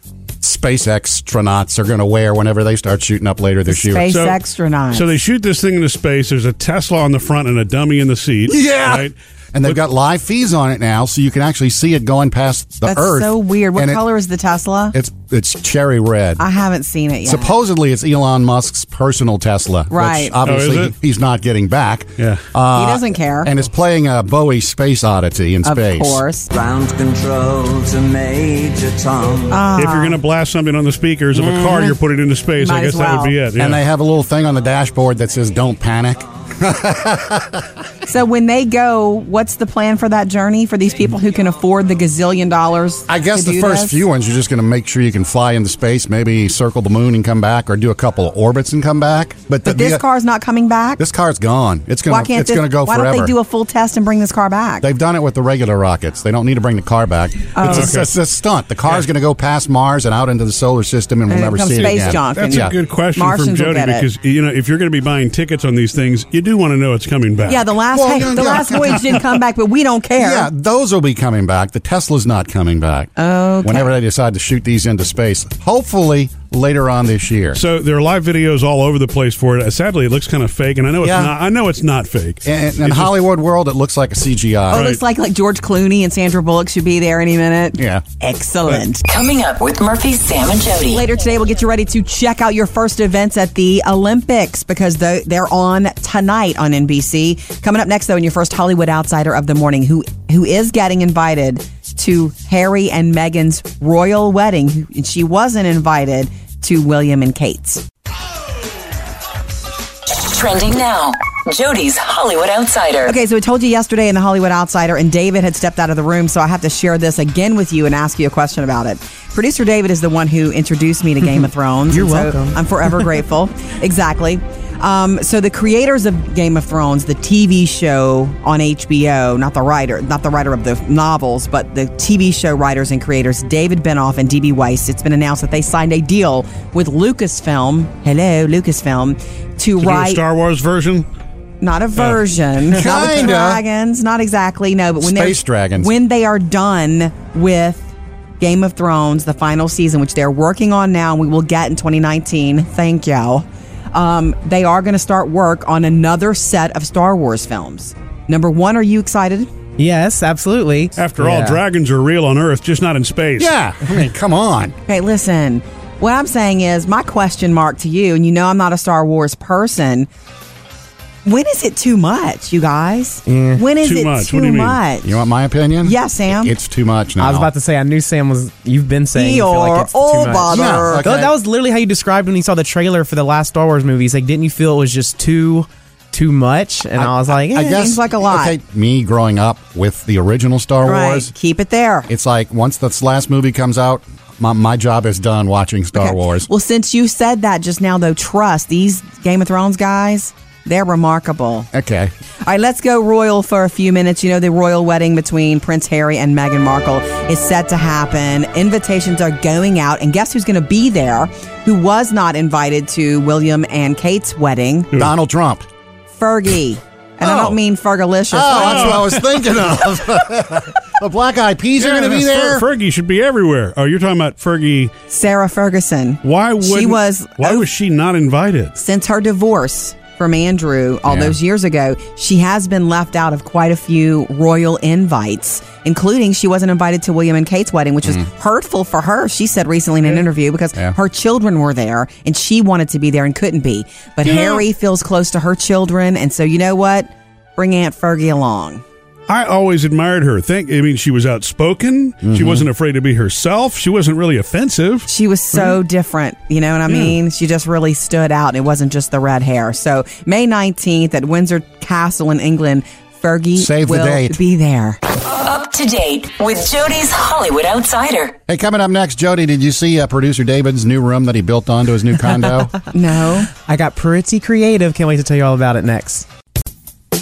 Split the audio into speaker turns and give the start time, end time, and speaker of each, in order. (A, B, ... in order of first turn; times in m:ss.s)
0:00.4-0:04.1 A
0:03.7-0:05.1 B
0:04.1-0:04.4 C
0:04.9-0:09.8 C
0:08.5-0:14.0 A
0:12.8-0:14.9 B
0:14.9-0:16.4 A
0:16.4-0:17.5 B
0:17.2-0:26.2 A
0:19.9-0:20.3 B
0:20.4-0:20.9 C
0:22.2-0:22.4 C
0:22.7-0:23.5 B
0:25.6-0:26.5 B
0:26.5-0:29.6 D
0:29.5-0:30.2 B
0:29.8-0:33.8 C
0:31.5-0:31.9 B
0:32.6-0:33.3 B
0:33.6-0:37.7 A
0:38.1-0:44.0 B
0:43.1-0:50.0 A
0:49.6-0:51.0 B
0:51.0-0:53.3 A
0:52.1-0:54.8 B
0:54.8-1:02.7 A
0:57.5-0:58.1 B
0:57.7-0:58.0 C
1:01.3-1:04.1 B
1:02.0-1:07.7 C
1:07.5-1:10.5 B
1:07.9-1:09.2 A
1:10.2-1:13.1 A
1:13.2-1:13.9 B
1:13.6-1:17.6 A
1:17.5-1:23.2 C
1:21.0-1:21.3 A
1:22.4-1:24.9 A
1:24.7-1:29.0 B
1:24.7-1:25.0 C
1:27.8-1:28.0 A
1:29.0-1:31.0 E
1:30.9-1:47.8 B
1:50.1-1:53.2 E
1:53.0-2:20.2 B
2:01.4-2:02.6 F
2:19.8-2:21.0 C
2:21.6-2:27.9 B
2:22.7-2:23.6 A
2:25.0-2:25.9 A
2:28.4-2:39.5 B
2:39.8-2:41.6 F
2:41.0-2:43.5 C
2:43.4-2:44.7 A
2:44.9-2:50.1 B
2:51.2-2:55.2 B
2:53.2-2:53.6 F
2:53.8-2:54.8 C
2:55.0-2:57.5 A
2:55.8-2:56.5 B
2:57.2-3:07.8 F
2:59.1-3:01.0 B
3:00.5-3:01.3 A
3:07.0-3:11.3 A
3:07.6-3:08.5 B
3:10.8-3:12.1 B
3:12.1-3:16.5 A
3:15.9-3:21.7 B
3:21.7-3:22.1 A
3:22.4-3:34.9 B
3:34.9-3:35.6 A
3:36.2-3:39.2 B
3:37.2-3:37.6 A
3:38.3-3:42.6 A
3:38.5-3:39.2 C
3:41.8-3:44.9 C
3:45.1-3:47.7 B
3:46.2-3:48.7 C
3:48.8-4:08.8 B
3:51.1-3:51.4 A
4:09.3-4:15.1 C
4:12.2-4:12.7 A
4:15.1-4:25.0 B
4:23.6-4:24.4 A
4:25.2-4:28.4 E
4:28.5-4:32.7 A
4:32.9-4:33.5 B
4:33.6-4:36.2 F